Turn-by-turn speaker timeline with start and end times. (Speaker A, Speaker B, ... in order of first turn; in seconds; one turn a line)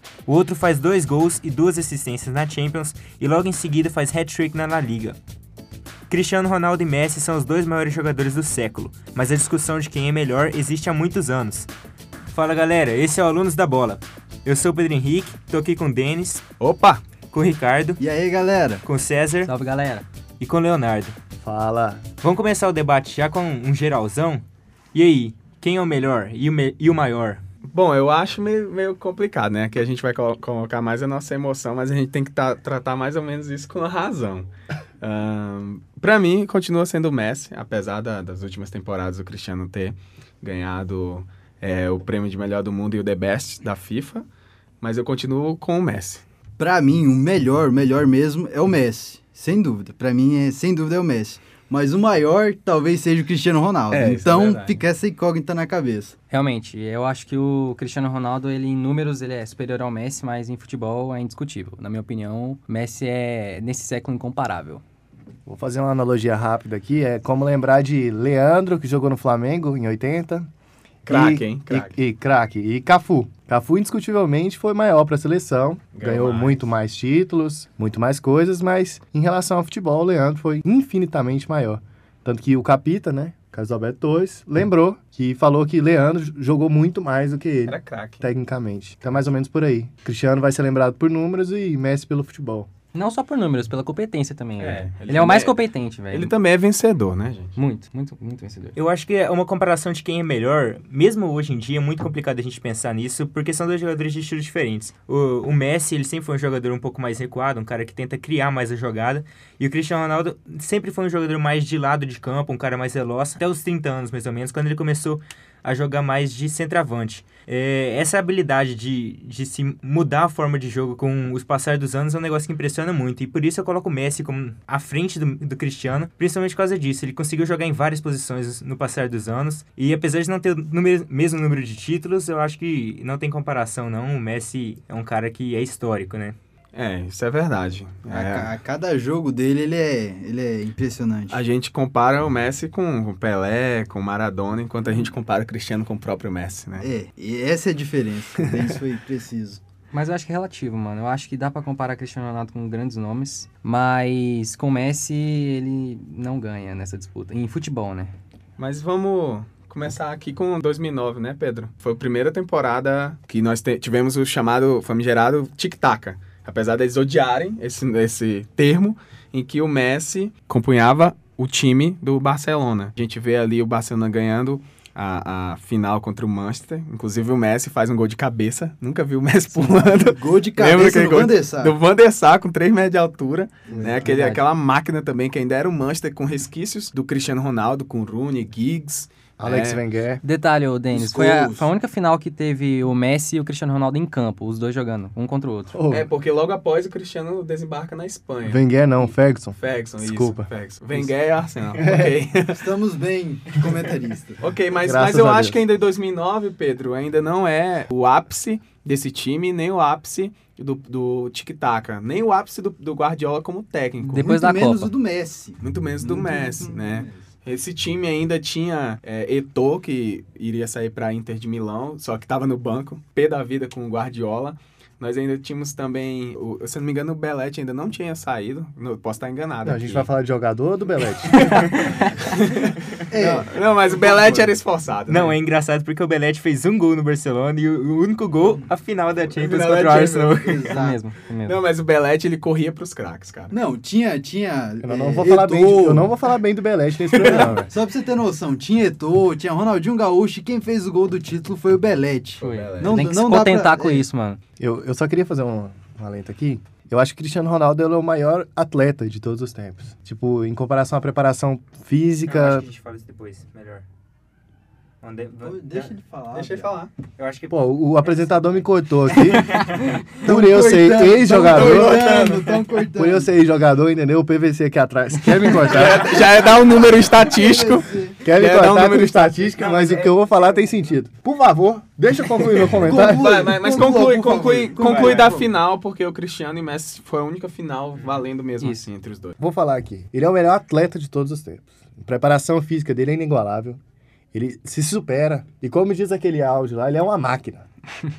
Speaker A: 0.3-5.2
Speaker A: 6.1-11.7
Speaker A: 12.3-16.4
Speaker B: 16.6-17.0
Speaker A: 17.3-18.0
Speaker C: 18.0-18.8
Speaker A: 18.8-19.5
Speaker D: 19.4-20.0
Speaker A: 20.4-21.1
Speaker E: 21.4-22.0
Speaker A: 22.2-24.4
Speaker A: 24.9-27.4
Speaker B: 27.7-34.5
Speaker B: 35.0-44.2
Speaker B: 44.8-46.2
Speaker C: 46.6-56.1
Speaker B: 53.9-54.8
Speaker D: 56.3-64.8
Speaker E: 65.5-70.5
Speaker B: 71.0-72.0
Speaker E: 71.1-92.7
Speaker B: 75.9-76.7
Speaker B: 87.7-88.2
Speaker D: 92.9-96.3
Speaker B: 94.6-95.6
Speaker B: 96.1-97.5
Speaker D: 97.6-98.8
Speaker A: 98.8-136.3
Speaker B: 136.7-138.5
Speaker C: 138.1-141.4
Speaker B: 141.3-146.9
Speaker C: 146.8-149.6
Speaker D: 149.9-158.1
Speaker B: 158.6-189.8
Speaker C: 179.8-181.8
Speaker C: 183.7-184.0
Speaker E: 183.7-184.0
Speaker D: 184.0-184.4
Speaker E: 189.4-190.2
Speaker D: 190.2-195.8
Speaker C: 190.9-191.7
Speaker E: 195.7-196.1
Speaker B: 195.9-198.6
Speaker E: 198.4-200.5
Speaker B: 199.6-202.7
Speaker E: 201.8-202.2
Speaker C: 202.5-204.4
Speaker B: 204.4-214.3
Speaker E: 204.8-205.6
Speaker C: 214.0-217.2
Speaker D: 214.1-214.9
Speaker B: 215.6-230.1
Speaker E: 229.6-231.7
Speaker B: 231.2-235.3
Speaker C: 233.1-234.4
Speaker E: 233.2-233.5
Speaker A: 235.1-240.2
Speaker B: 239.3-240.8
Speaker D: 239.5-241.6
Speaker C: 240.3-241.0
Speaker B: 241.4-243.6
Speaker C: 243.5-246.1
Speaker E: 244.8-247.7
Speaker C: 247.1-254.0
Speaker B: 252.4-253.0
Speaker D: 252.4-254.4
Speaker E: 254.6-262.6
Speaker A: 262.2-263.8
Speaker A: 265.0-265.9
Speaker C: 265.4-266.7
Speaker B: 266.3-266.9
Speaker A: 267.0-268.5
Speaker E: 267.5-269.6
Speaker A: 269.4-269.9
Speaker C: 270.2-273.3
Speaker E: 270.2-272.0
Speaker B: 271.4-272.6
Speaker E: 272.9-276.2
Speaker B: 275.5-279.4
Speaker C: 276.1-278.2
Speaker E: 278.2-283.5
Speaker A: 279.6-280.1
Speaker B: 282.5-289.4
Speaker C: 282.7-285.5
Speaker A: 284.8-285.3
Speaker D: 288.6-288.9
Speaker E: 289.4-293.8
Speaker E: 294.3-297.6